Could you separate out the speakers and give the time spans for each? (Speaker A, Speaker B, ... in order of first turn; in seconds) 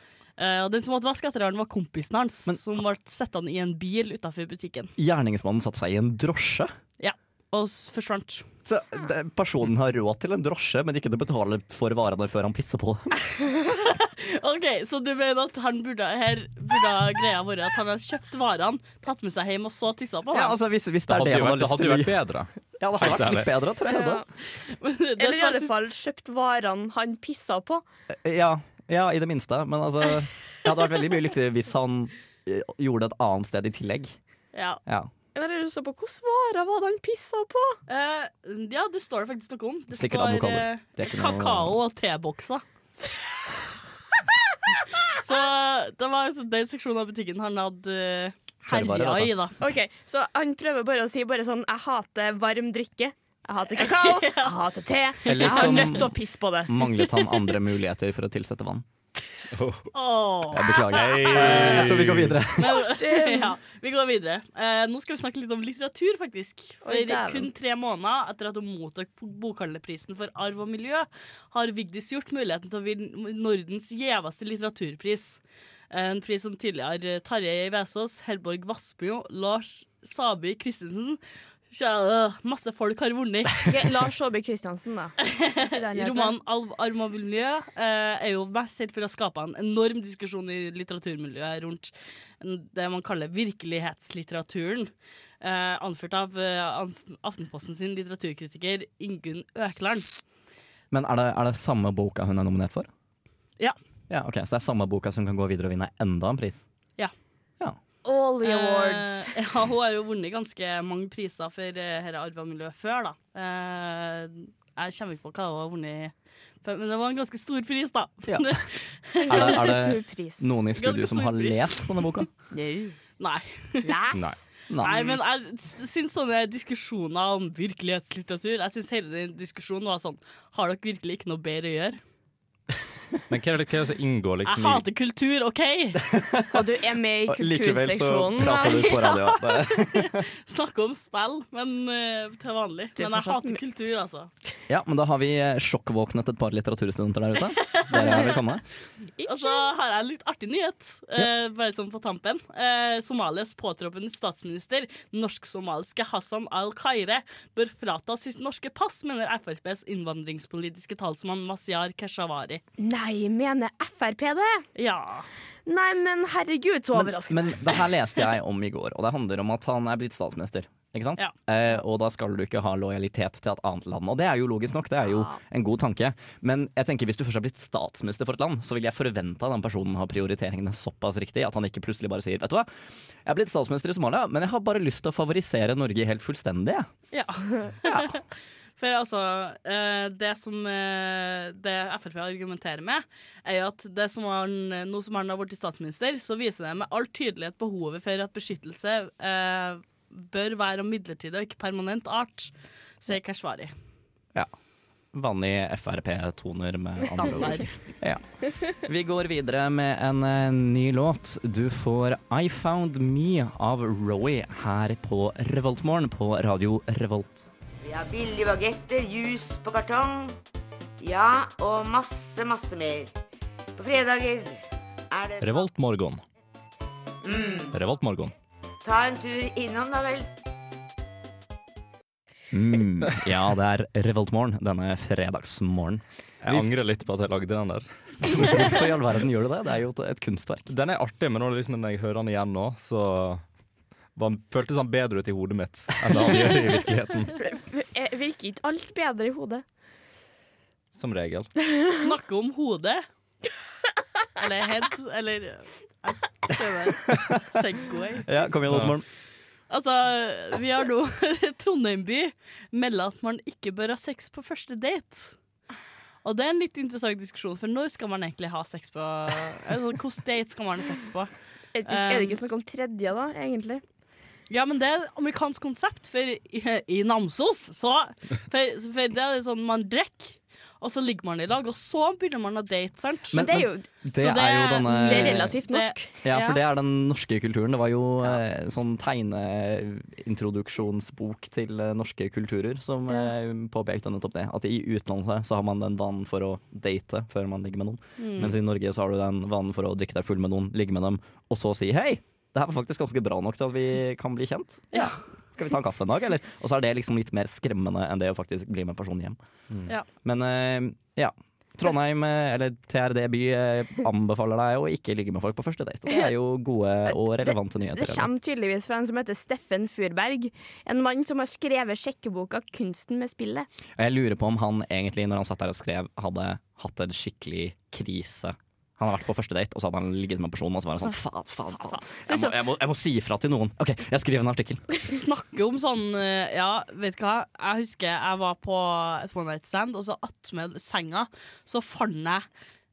Speaker A: 0.4-4.9, 7.0-8.5, 13.8-20.6, 24.6-25.7, 34.5-34.8, 37.9-42.6, 45.2-49.6, 53.9-54.5, 55.2-56.0, 59.9-61.9, 62.6-81.2, 81.7-83.7, 85.2-100.0, 108.4-119.8, 120.8-122.2, 123.2-124.0, 124.8-132.0, 134.5-136.0, 138.6-144.3, 147.6-148.4, 149.3-162.6, 164.8-165.3, 187.1-188.2, 188.8-202.5, 203.0-203.7, 207.2-207.7, 251.9-253.1, 254.4-258.3, 259.7-265.4, 266.2-271.3, 271.9-272.4, 274.5-283.5, 284.2-286.6, 298.2-298.6, 335.1-342.4
Speaker B: 5.0-6.7, 8.7-13.1, 20.3-22.2, 22.8-24.3, 28.1-34.2, 39.9-41.8, 48.6-49.3, 55.2-58.9, 60.5-62.8, 100.9-102.9, 104.1-106.6, 118.3-118.7, 119.3-122.3, 124.7-125.2, 136.0-136.6, 137.3-140.2, 144.7-148.6, 166.9-182.7, 183.2-186.9, 187.8-188.2, 205.1-217.5, 232.5-236.7, 238.2-240.7, 258.2-259.1, 283.3-285.6, 286.2-309.4, 310.2-318.3, 324.0-334.9
Speaker C: 21.1-23.5, 59.5-59.9, 60.9-62.4, 124.1-124.4, 133.3-134.8, 225.4-226.2, 227.7-228.3, 236.4-238.7, 240.7-243.4, 244.2-247.3, 250.9-251.5, 258.7-258.9
Speaker D: 23.9-24.3, 25.2-27.8, 35.4-37.8, 49.6-57.0, 62.6-63.6, 66.8-67.5, 83.7-86.4, 108.0-109.3, 119.3-120.5, 122.5-123.0, 123.8-124.4, 136.5-139.2, 143.0-143.6, 148.0-148.2, 149.2-149.6, 162.8-164.7, 165.7-167.6, 247.4-249.6, 271.8-273.8, 283.3-283.9, 284.8-286.1, 317.1-323.7, 331.9-332.5
Speaker E: 217.8-220.4, 221.0-223.1, 223.8-224.6, 225.1-225.7, 227.2-227.7, 228.8-230.3